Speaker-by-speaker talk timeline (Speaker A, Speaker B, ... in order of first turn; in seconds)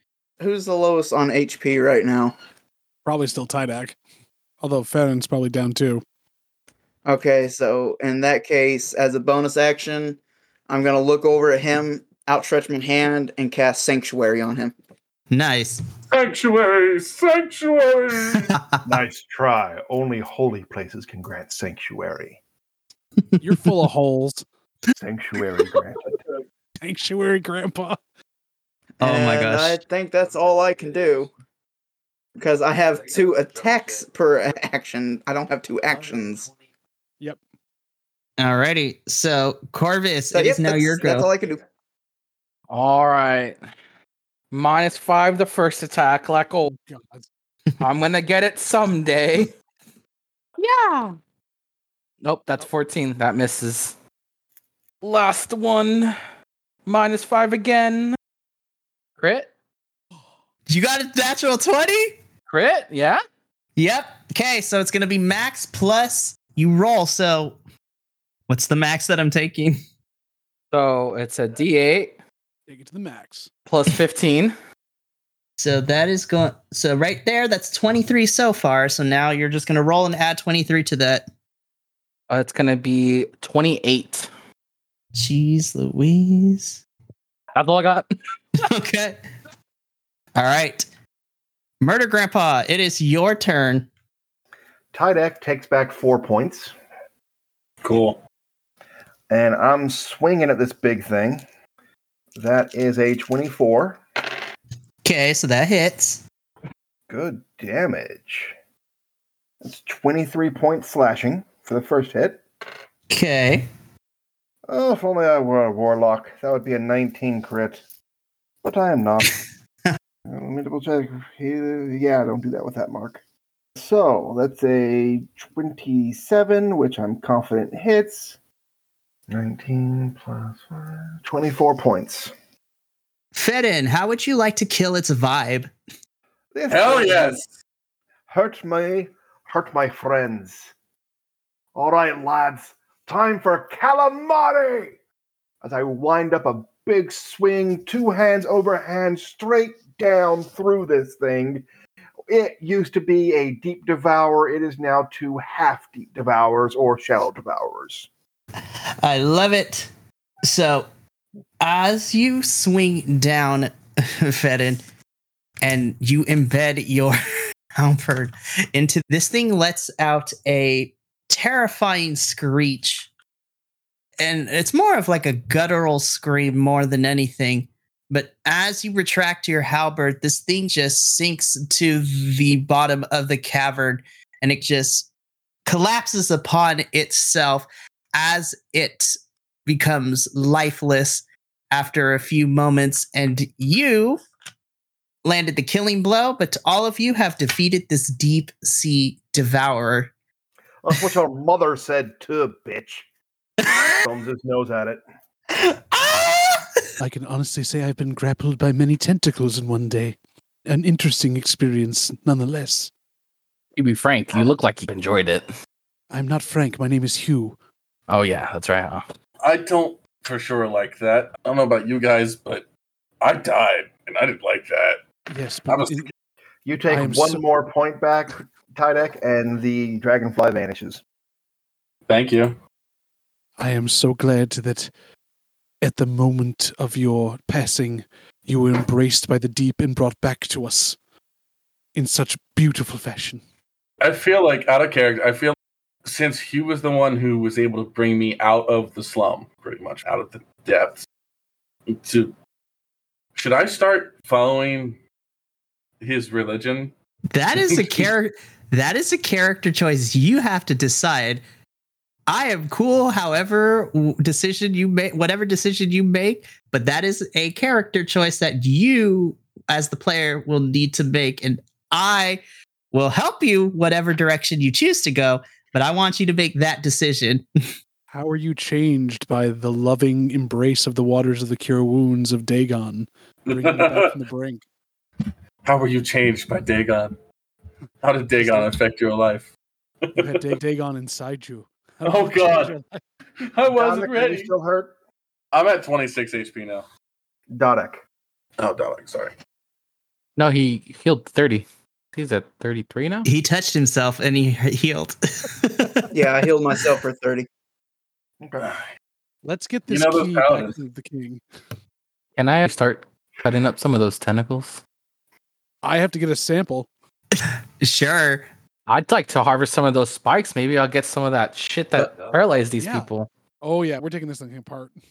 Speaker A: 0.4-2.4, 7.1-10.2, 10.7-14.7, 29.0-31.3, 32.4-36.5, 40.3-41.6, 306.1-307.5
Speaker B: 3.0-4.0, 4.6-6.0, 23.4-24.4, 26.8-28.0, 46.9-47.3, 72.7-73.5, 207.0-210.2, 210.7-212.9, 216.1-217.6, 225.3-226.1, 226.9-227.5, 233.6-234.9, 235.8-241.0, 242.0-243.4, 278.1-284.6, 288.4-288.7, 290.1-293.0, 309.4-311.4, 315.8-316.9, 322.8-323.1, 323.6-325.0
Speaker C: 15.3-15.8, 29.0-29.8, 38.4-41.3, 60.7-62.2, 63.8-67.6, 68.5-69.8, 75.6-81.2, 85.1-86.8, 88.6-89.2, 90.3-90.9, 91.8-93.9, 105.0-106.2, 113.1-113.7, 133.3-135.7, 159.0-159.9, 160.4-160.9, 161.6-164.8, 165.6-167.2, 167.8-173.1, 174.2-185.1, 185.7-189.1, 189.7-194.2, 195.2-200.1, 203.7-204.1, 205.5-206.7, 257.3-261.4, 262.3-277.5, 303.2-306.4, 317.3-318.5
Speaker D: 16.1-18.6, 97.8-98.2, 136.7-137.5, 219.4-222.7, 223.2-225.0, 225.7-226.1, 232.1-232.6, 244.0-251.1, 251.9-252.3, 253.3-255.0, 256.0-256.9, 257.7-258.0, 283.5-284.1, 285.6-287.2, 288.0-289.5, 290.0-290.6, 292.0-292.7, 293.4-294.5, 295.5-296.9, 298.6-299.4, 309.9-310.8
Speaker E: 18.9-22.4, 25.0-26.2, 94.9-96.7, 99.3-101.4, 102.4-104.0, 107.1-108.5, 109.6-112.4, 114.7-117.8, 118.6-119.4, 120.3-123.2, 123.8-128.4, 129.3-132.3, 136.5-137.4, 138.3-140.7, 141.8-145.0, 145.6-151.6, 152.3-158.1, 200.8-203.1, 204.1-205.0, 226.7-231.0, 293.7-294.9, 297.5-298.0, 308.4-308.7
Speaker F: 42.7-43.6, 44.5-46.8, 47.8-49.5, 50.6-51.2, 52.2-54.0, 55.0-56.2, 56.9-58.2, 59.2-59.5, 62.5-63.2, 70.7-72.2, 73.7-74.5, 82.3-84.3, 87.5-88.1, 213.8-215.5, 218.1-219.0, 300.4-303.3, 312.4-314.8, 318.9-323.3